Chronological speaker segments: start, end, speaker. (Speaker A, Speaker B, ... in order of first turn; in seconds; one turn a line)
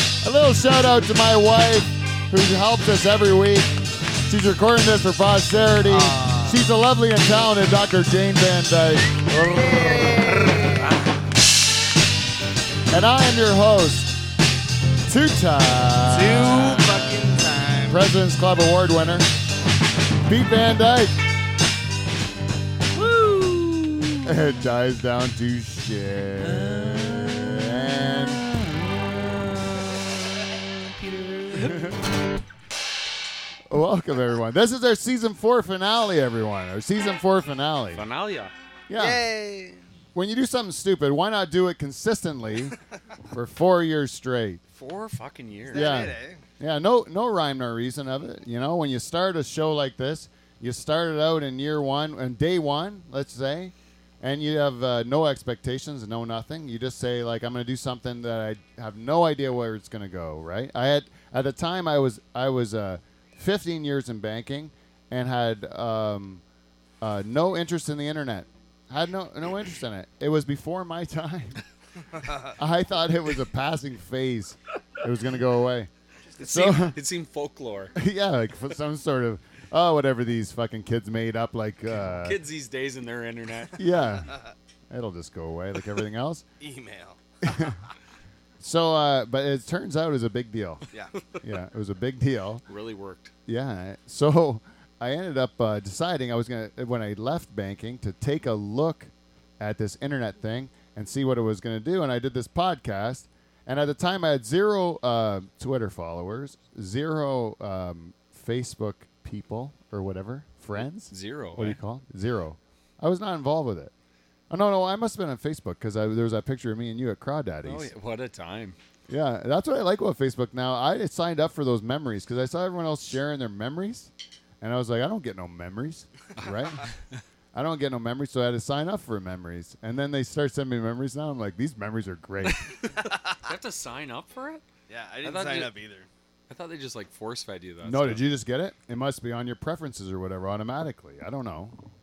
Speaker A: 0.2-10.7
Speaker B: 5.8-6.6
Speaker B: 9.3-10.8
Speaker A: 12.9-14.2
Speaker A: 15.1-17.2
Speaker B: 16.1-18.0
Speaker A: 17.9-19.3
Speaker A: 20.3-21.1
Speaker C: 22.9-24.4
Speaker A: 24.2-28.4
Speaker C: 26.4-27.7
Speaker C: 28.6-32.0
Speaker A: 31.5-32.0
Speaker A: 33.7-38.1
Speaker C: 37.9-38.5
Speaker A: 38.9-39.2
Speaker B: 39.0-39.8
Speaker A: 40.1-42.8
Speaker A: 43.3-44.6
Speaker C: 44.7-46.0
Speaker B: 45.7-46.4
Speaker A: 45.7-66.4
Speaker A: 67.0-71.6
Speaker A: 72.6-77.0
Speaker C: 76.4-78.0
Speaker A: 78.0-82.4
Speaker C: 82.2-83.9
Speaker A: 83.8-84.3
Speaker B: 84.3-84.5
Speaker A: 84.9-86.5
Speaker B: 86.6-87.8
Speaker A: 87.4-87.8
Speaker A: 88.6-92.6
Speaker B: 90.9-91.2
Speaker C: 92.7-93.3
Speaker A: 93.5-113.9
Speaker C: 111.1-111.8
Speaker A: 114.5-117.9
Speaker C: 117.6-118.8
Speaker A: 119.1-124.1
Speaker A: 124.6-126.9
Speaker A: 127.5-132.7
Speaker C: 132.5-134.6
Speaker B: 134.9-136.1
Speaker C: 135.2-135.8
Speaker C: 136.5-138.2
Speaker A: 137.8-141.8